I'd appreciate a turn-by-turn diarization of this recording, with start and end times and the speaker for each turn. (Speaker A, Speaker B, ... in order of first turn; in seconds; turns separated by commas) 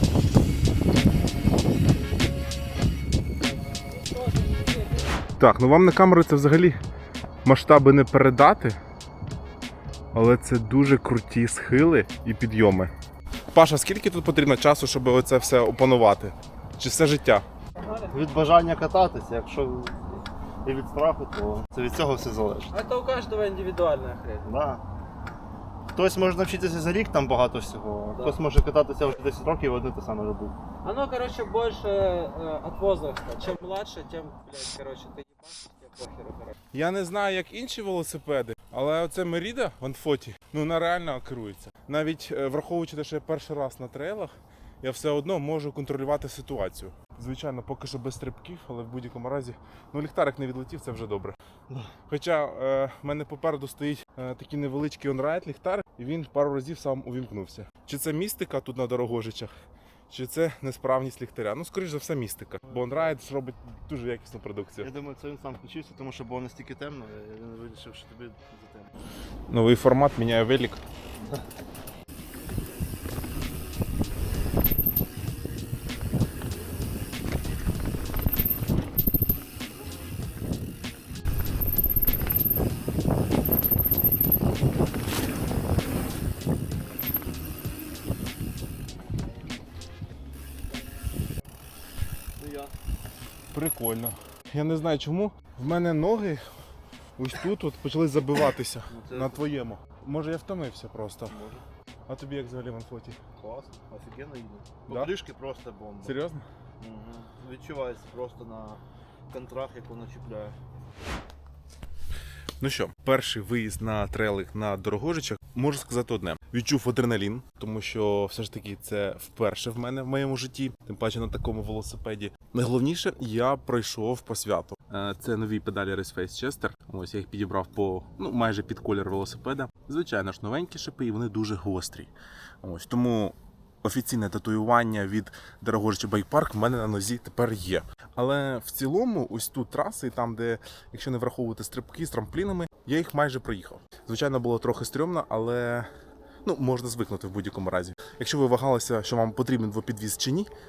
Speaker A: 4.0-5.1, Speaker B: 5.4-6.8, Speaker B: 7.4-8.8, Speaker B: 10.1-12.9, Speaker B: 13.5-17.4, Speaker C: 18.1-22.7, Speaker A: 22.7-24.4, Speaker C: 24.4-24.8, Speaker C: 25.9-30.6, Speaker A: 30.8-36.5, Speaker B: 36.7-51.4, Speaker B: 52.1-59.5, Speaker B: 60.1-64.9, Speaker C: 62.7-63.1, Speaker C: 64.8-68.9, Speaker B: 69.5-70.8, Speaker C: 92.4-92.7, Speaker B: 93.5-96.4, Speaker B: 97.2-101.4, Speaker C: 98.9-99.5, Speaker C: 101.3-101.6, Speaker B: 102.1-103.2, Speaker C: 103.4-106.1, Speaker B: 106.0-106.4, Speaker C: 106.8-110.6, Speaker B: 112.6-145.9, Speaker B: 146.4-150.5